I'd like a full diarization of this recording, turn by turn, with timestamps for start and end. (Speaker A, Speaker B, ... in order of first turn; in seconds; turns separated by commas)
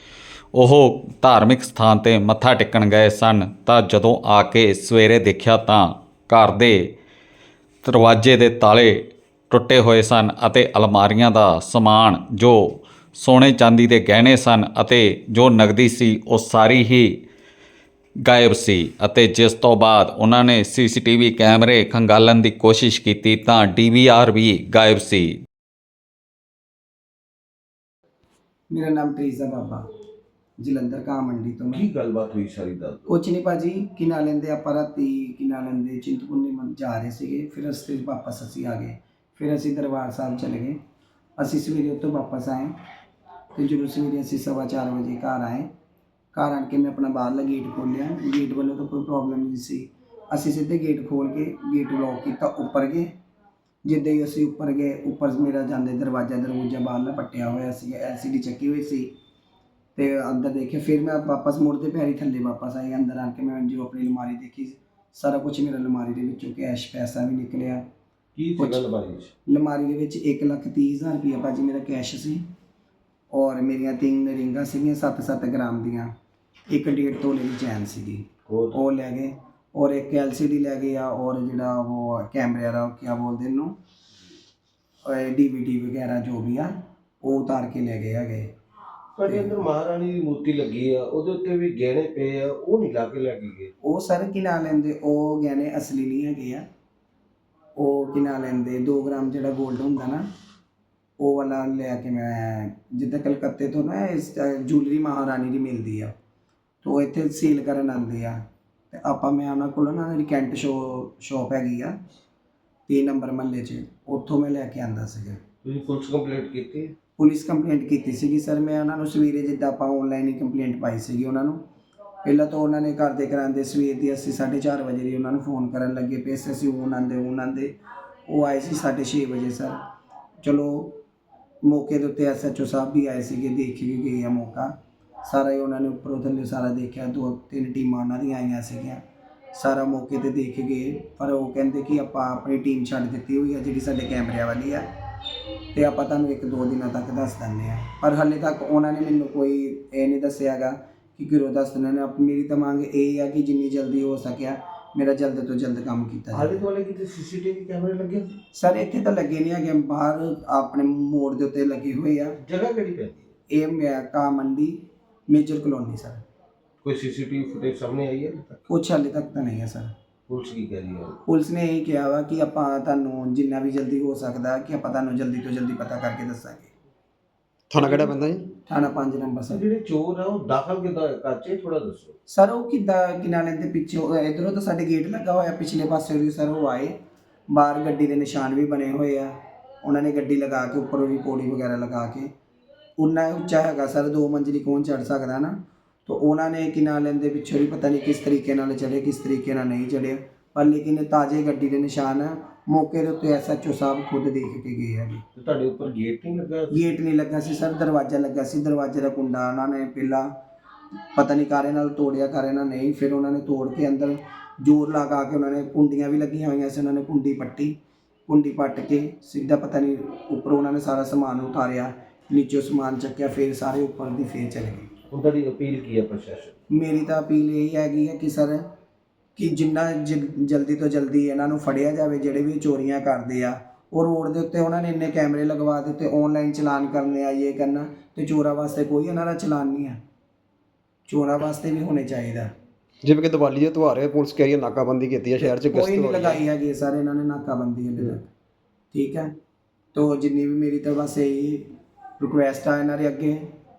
Speaker A: 0.6-6.9, Speaker A: 7.8-17.2, Speaker A: 18.3-25.3, Speaker B: 28.7-29.8, Speaker B: 30.6-31.8, Speaker C: 31.7-33.0, Speaker B: 33.1-40.8, Speaker B: 41.4-42.7, Speaker B: 43.5-45.7, Speaker B: 46.3-53.1, Speaker B: 53.9-59.1, Speaker B: 60.0-67.8, Speaker C: 68.3-69.3, Speaker B: 68.6-68.8, Speaker B: 69.5-72.4, Speaker B: 73.3-76.1, Speaker B: 76.7-83.8, Speaker C: 78.5-78.8, Speaker B: 85.0-88.5, Speaker C: 89.2-93.7, Speaker B: 89.3-89.6, Speaker B: 93.8-96.6, Speaker B: 97.8-100.2, Speaker B: 101.2-106.1, Speaker B: 106.8-108.4, Speaker B: 108.9-112.0, Speaker B: 112.9-115.4, Speaker C: 115.6-117.0, Speaker B: 117.2-121.6, Speaker B: 122.2-127.8, Speaker B: 128.3-129.8, Speaker B: 130.4-131.0, Speaker B: 131.6-134.7, Speaker B: 135.2-144.9, Speaker B: 145.7-156.6, Speaker C: 156.3-158.4, Speaker B: 158.5-162.4, Speaker C: 162.4-163.3, Speaker B: 163.5-166.2, Speaker C: 166.8-168.6, Speaker B: 168.7-169.9, Speaker C: 170.3-171.2, Speaker B: 171.3-176.7, Speaker D: 177.7-178.4, Speaker B: 178.7-179.6, Speaker C: 179.5-182.2, Speaker B: 182.3-186.9, Speaker B: 187.5-189.3, Speaker B: 189.8-192.3, Speaker B: 193.0-205.2, Speaker C: 205.3-207.0, Speaker B: 206.7-210.4, Speaker B: 211.2-224.9, Speaker C: 225.1-226.6, Speaker B: 226.7-228.6, Speaker B: 229.4-240.0, Speaker B: 241.1-242.5, Speaker D: 243.0-246.4, Speaker B: 245.7-248.3, Speaker B: 248.9-249.3, Speaker B: 249.9-253.5